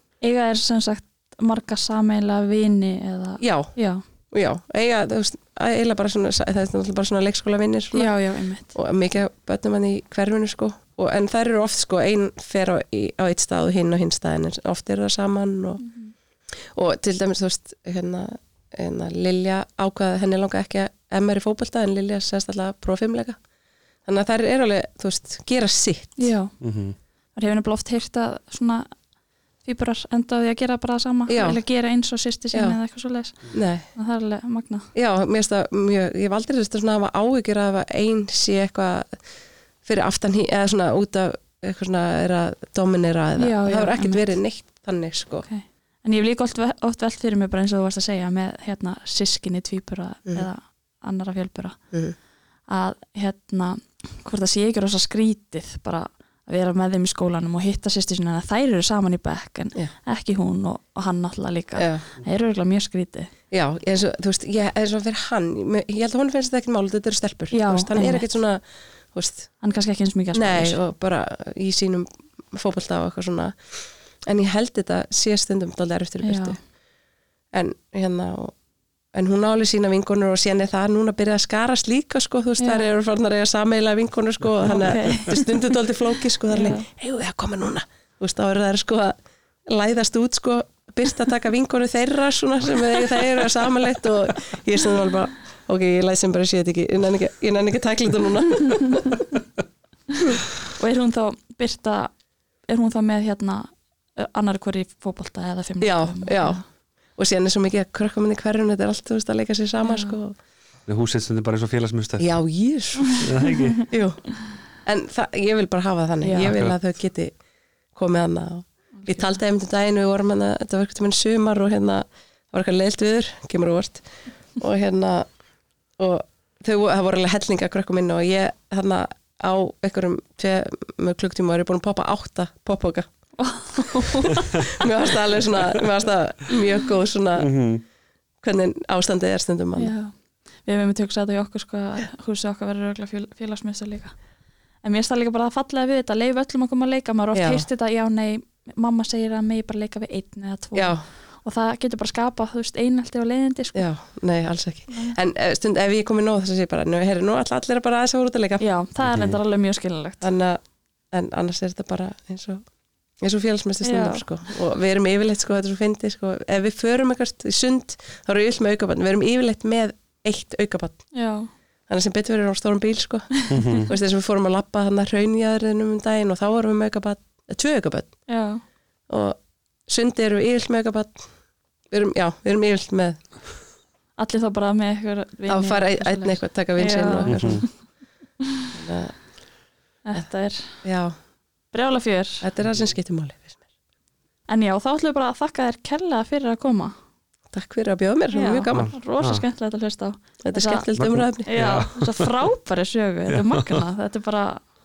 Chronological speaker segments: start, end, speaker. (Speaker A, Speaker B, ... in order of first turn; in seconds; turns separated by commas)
Speaker A: 0.2-4.0, Speaker B: 3.4-15.8, Speaker A: 7.9-8.7, Speaker A: 15.8-16.1, Speaker B: 16.5-23.4, Speaker B: 24.0-26.3, Speaker A: 26.2-26.7, Speaker C: 26.6-26.9, Speaker A: 27.3-29.1, Speaker A: 29.6-34.9, Speaker B: 31.3-31.6, Speaker B: 32.5-32.8, Speaker B: 33.5-33.9, Speaker B: 34.9-39.2, Speaker B: 39.8-45.5, Speaker A: 43.4-44.4, Speaker A: 45.4-63.3, Speaker B: 51.9-52.2, Speaker B: 61.7-62.0, Speaker B: 63.5-69.6, Speaker A: 67.5-68.3, Speaker A: 69.6-70.8, Speaker B: 70.3-76.7, Speaker A: 76.2-76.6, Speaker B: 77.5-78.5, Speaker B: 79.1-89.2, Speaker A: 82.6-82.8, Speaker A: 84.7-85.8, Speaker A: 86.5-86.8, Speaker B: 89.7-99.2, Speaker A: 100.7-106.6, Speaker B: 105.8-110.3, Speaker A: 109.8-110.2, Speaker C: 110.8-112.5, Speaker B: 112.2-113.3, Speaker C: 113.2-113.9, Speaker B: 113.8-117.3, Speaker A: 116.2-116.5, Speaker C: 116.5-116.8, Speaker B: 117.9-125.3, Speaker A: 119.0-119.4, Speaker B: 126.0-133.1, Speaker A: 133.4-134.7, Speaker B: 133.7-137.6, Speaker C: 137.4-137.8, Speaker B: 138.4-139.9, Speaker A: 139.8-144.2, Speaker A: 144.8-154.0, Speaker B: 147.3-147.7, Speaker B: 150.7-151.0, Speaker B: 153.7-158.7, Speaker A: 154.9-155.2, Speaker A: 158.6-160.3, Speaker C: 159.0-159.4, Speaker B: 160.2-162.6, Speaker B: 163.2-171.3, Speaker A: 163.8-164.3, Speaker A: 171.1-171.5, Speaker B: 171.9-178.4, Speaker C: 173.5-173.9, Speaker A: 178.3-178.6, Speaker B: 179.1-181.3, Speaker B: 181.8-183.2, Speaker A: 184.2-188.0, Speaker B: 185.5-187.8, Speaker C: 187.3-187.6, Speaker B: 188.7-189.2, Speaker A: 190.0-190.8, Speaker B: 190.8-191.2, Speaker A: 191.7-192.4, Speaker B: 192.4-193.6, Speaker C: 192.6-192.9, Speaker A: 194.5-196.9, Speaker B: 197.5-198.9, Speaker A: 198.3-200.8, Speaker C: 198.7-199.4, Speaker B: 200.4-201.5, Speaker C: 200.9-202.3, Speaker A: 201.4-204.6, Speaker C: 203.3-203.8